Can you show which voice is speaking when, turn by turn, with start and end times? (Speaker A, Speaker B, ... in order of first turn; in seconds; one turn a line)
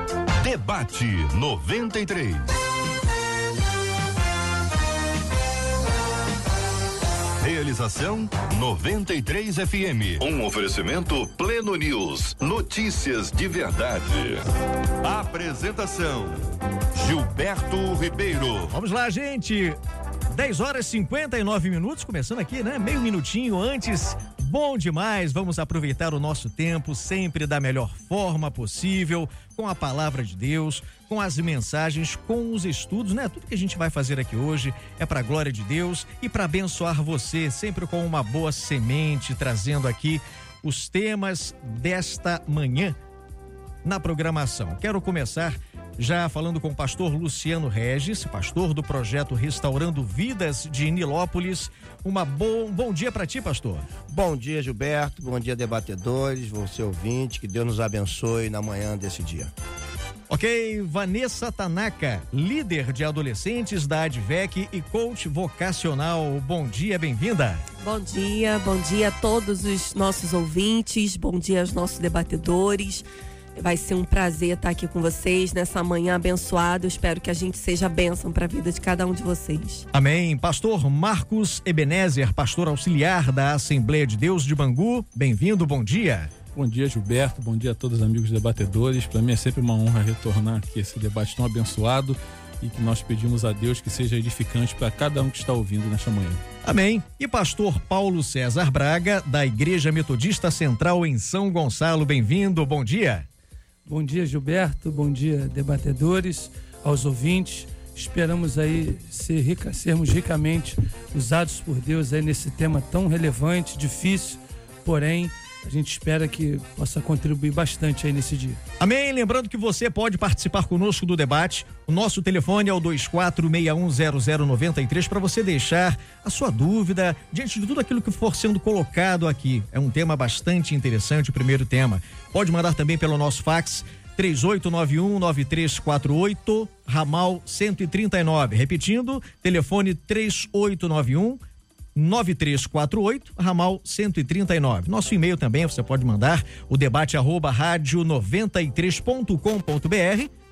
Speaker A: 0.4-2.6
Speaker A: 7.4-14.5
Speaker A: 15.0-16.4
Speaker A: 16.9-18.7
Speaker B: 18.7-19.8
Speaker B: 20.3-43.0
Speaker B: 43.8-53.9
Speaker C: 54.0-59.5
Speaker B: 60.3-67.6
Speaker D: 67.8-79.8
Speaker B: 79.9-86.3
Speaker E: 86.5-96.4
Speaker B: 96.6-103.2
Speaker F: 103.8-118.6
Speaker B: 118.8-141.4
Speaker B: 141.9-150.3